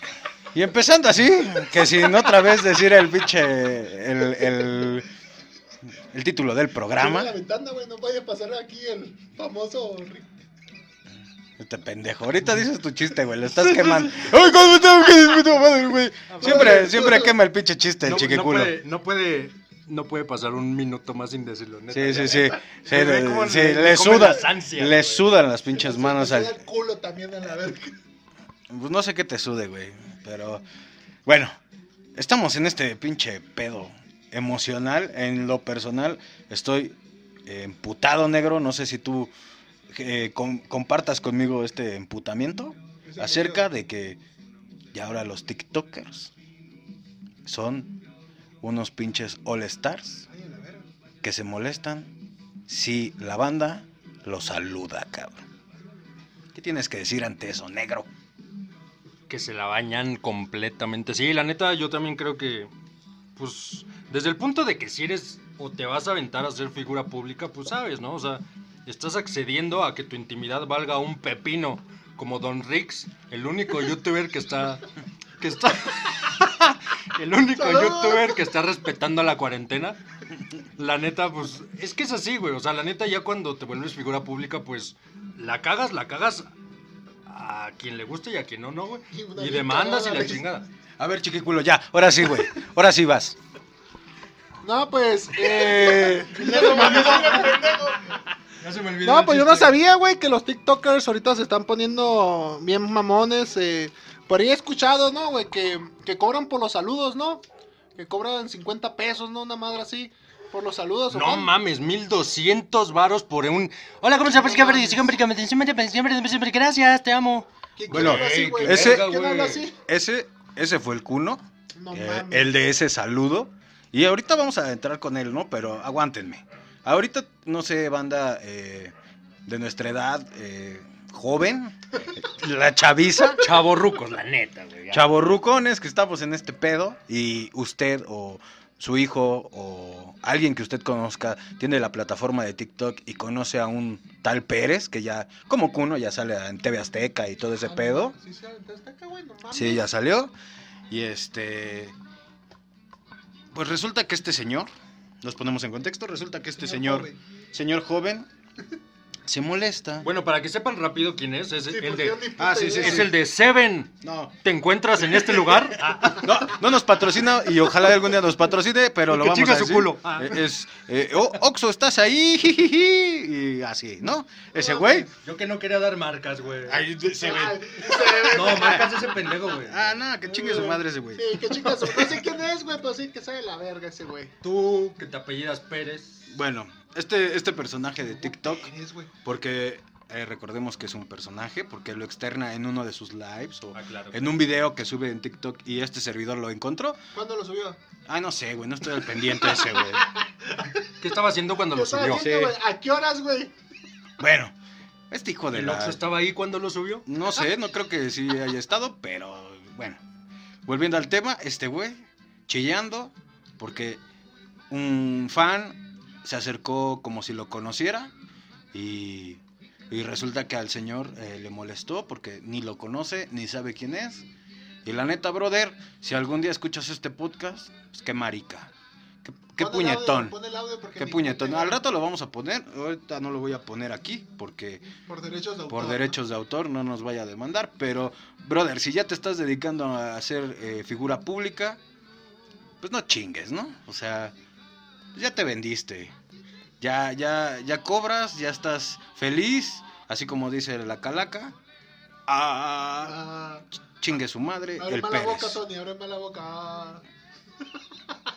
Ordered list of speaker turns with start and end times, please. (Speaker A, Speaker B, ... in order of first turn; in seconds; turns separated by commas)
Speaker A: 0.5-5.1, Speaker A: 6.1-7.3, Speaker B: 7.0-10.4, Speaker A: 11.6-18.8, Speaker C: 13.6-14.2, Speaker C: 16.3-17.1, Speaker B: 16.4-17.3, Speaker C: 18.0-25.3, Speaker A: 21.9-26.6, Speaker B: 25.7-27.9, Speaker A: 28.7-30.6, Speaker A: 31.3-31.6, Speaker A: 32.2-39.3, Speaker A: 39.9-44.2, Speaker B: 43.1-43.7, Speaker A: 44.9-46.3, Speaker A: 47.5-48.0, Speaker A: 48.6-50.3, Speaker B: 50.3-50.9, Speaker A: 51.2-52.1, Speaker A: 52.7-55.5, Speaker A: 56.5-58.1, Speaker C: 59.3-62.7, Speaker C: 63.4-74.8, Speaker C: 75.4-80.0, Speaker B: 77.6-78.4, Speaker C: 80.8-86.5, Speaker C: 87.3-90.7, Speaker B: 89.1-90.4, Speaker A: 91.0-93.4, Speaker B: 94.6-98.1, Speaker C: 95.5-97.8, Speaker A: 96.4-97.8, Speaker C: 98.6-99.8, Speaker B: 99.0-107.4, Speaker B: 108.0-111.5, Speaker C: 111.1-119.7, Speaker B: 114.3-115.1, Speaker B: 117.8-119.8, Speaker A: 117.9-119.1, Speaker A: 119.8-128.9, Speaker B: 121.8-122.5, Speaker A: 129.5-133.5, Speaker C: 133.4-135.1, Speaker A: 134.9-148.2, Speaker B: 147.5-149.8, Speaker A: 149.5-150.3, Speaker A: 150.9-151.9, Speaker A: 153.5-154.7, Speaker A: 155.2-158.3, Speaker B: 156.6-157.2, Speaker A: 159.3-160.1, Speaker C: 160.0-166.5, Speaker B: 161.7-163.1, Speaker A: 162.4-163.1, Speaker A: 164.0-164.3, Speaker A: 165.2-175.1, Speaker C: 169.1-170.4, Speaker B: 174.5-175.1, Speaker C: 175.1-176.9, Speaker A: 176.7-182.2, Speaker B: 177.1-179.1, Speaker C: 178.1-180.0, Speaker B: 180.3-184.4, Speaker C: 184.4-186.3, Speaker A: 186.3-188.7, Speaker B: 188.1-189.1, Speaker A: 189.2-197.0, Speaker C: 193.7-194.3, Speaker B: 197.2-197.8, Speaker A: 198.1-200.1, Speaker B: 199.2-200.9, Speaker C: 201.0-202.2, Speaker B: 201.7-203.5, Speaker A: 202.1-202.6, Speaker A: 204.2-204.5, Speaker A: 205.1-206.0, Speaker C: 205.5-207.1, Speaker A: 207.1-210.0, Speaker A: 210.7-214.0, Speaker A: 214.7-218.1, Speaker A: 218.7-224.2, Speaker A: 224.8-228.7, Speaker A: 229.2-230.4, Speaker B: 229.6-231.8, Speaker A: 231.0-234.9, Speaker B: 235.1-236.2, Speaker A: 235.7-241.8, Speaker A: 242.8-244.3, Speaker A: 245.1-246.1, Speaker A: 246.8-251.6, Speaker A: 252.3-253.2, Speaker B: 253.0-253.7, Speaker A: 254.0-255.6, Speaker B: 254.8-257.0